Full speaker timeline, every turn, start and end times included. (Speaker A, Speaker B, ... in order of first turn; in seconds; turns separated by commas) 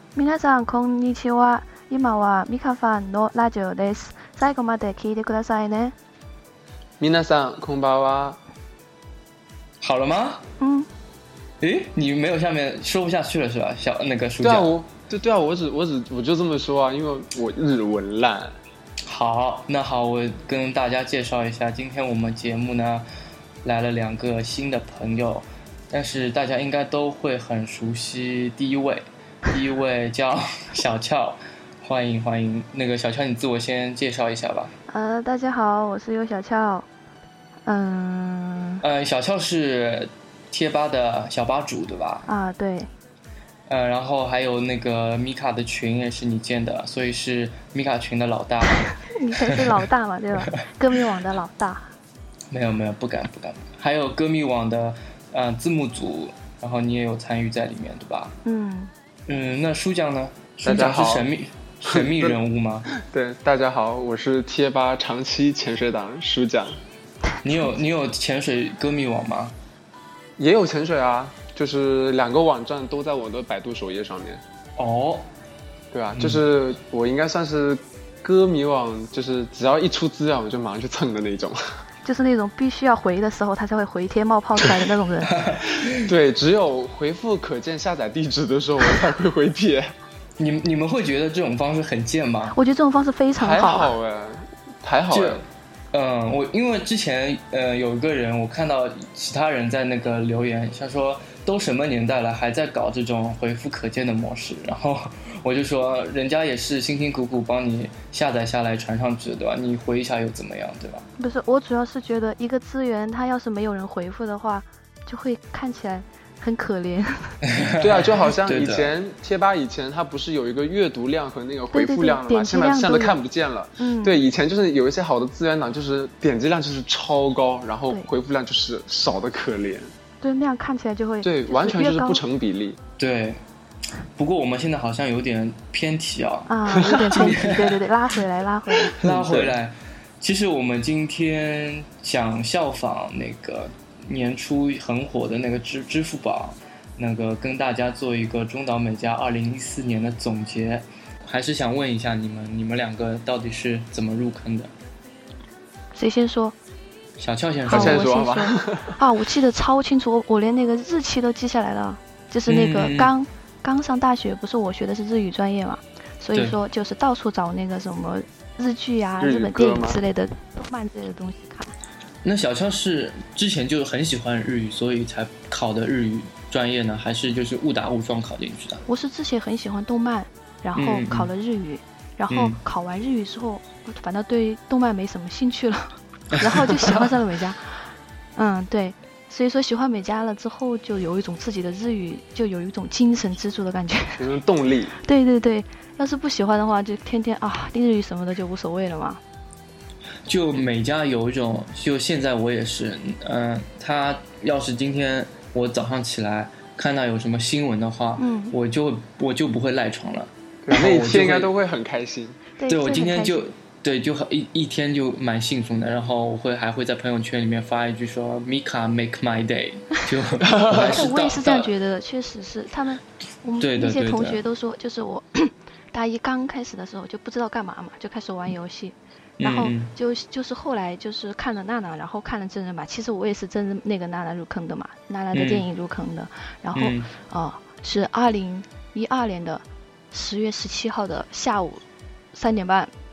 Speaker A: 0.1-6.0, Speaker B: 7.0-8.4, Speaker C: 9.8-10.4, Speaker A: 10.6-10.9, Speaker C: 11.6-14.7, Speaker B: 14.4-18.6, Speaker C: 19.1-23.1, Speaker C: 23.6-34.7, Speaker A: 34.9-36.9, Speaker A: 37.7-38.8, Speaker C: 38.8-42.3, Speaker A: 42.3-42.9, Speaker C: 43.7-48.9, Speaker A: 48.8-51.9, Speaker C: 52.5-58.4, Speaker A: 58.5-58.9, Speaker C: 59.3-62.9, Speaker B: 60.6-61.3, Speaker B: 61.9-62.4, Speaker B: 62.9-66.8, Speaker C: 67.4-69.5, Speaker B: 70.4-74.4, Speaker C: 74.8-75.3, Speaker B: 75.9-81.6, Speaker C: 76.2-76.4, Speaker A: 82.0-85.4, Speaker C: 85.3-86.1, Speaker B: 85.9-89.9, Speaker C: 90.4-92.5, Speaker A: 92.5-93.9, Speaker B: 93.4-95.4, Speaker C: 95.1-111.1, Speaker A: 111.2-117.4, Speaker C: 117.5-118.9, Speaker B: 117.8-129.9, Speaker A: 121.7-123.2, Speaker A: 123.8-124.2, Speaker A: 130.2-132.2, Speaker B: 131.2-132.8, Speaker C: 133.0-133.4, Speaker C: 134.2-137.8, Speaker A: 136.5-139.0, Speaker B: 138.9-139.6, Speaker C: 138.9-154.7, Speaker A: 155.9-156.6, Speaker C: 157.2-158.1, Speaker A: 157.7-171.7, Speaker B: 157.7-159.0, Speaker C: 162.5-163.1, Speaker B: 169.2-170.0, Speaker C: 172.2-178.8, Speaker A: 178.9-194.2, Speaker C: 180.8-181.3, Speaker C: 182.3-182.6, Speaker C: 186.3-187.0, Speaker B: 194.2-194.9, Speaker A: 195.0-199.2, Speaker C: 200.3-211.5, Speaker A: 208.2-208.5, Speaker B: 210.7-212.4, Speaker A: 212.6-213.4, Speaker C: 212.7-221.7, Speaker B: 220.4-220.9, Speaker A: 220.9-241.8, Speaker C: 223.6-224.4, Speaker C: 229.4-229.9, Speaker C: 235.3-235.7, Speaker C: 236.8-237.1, Speaker A: 242.3-242.9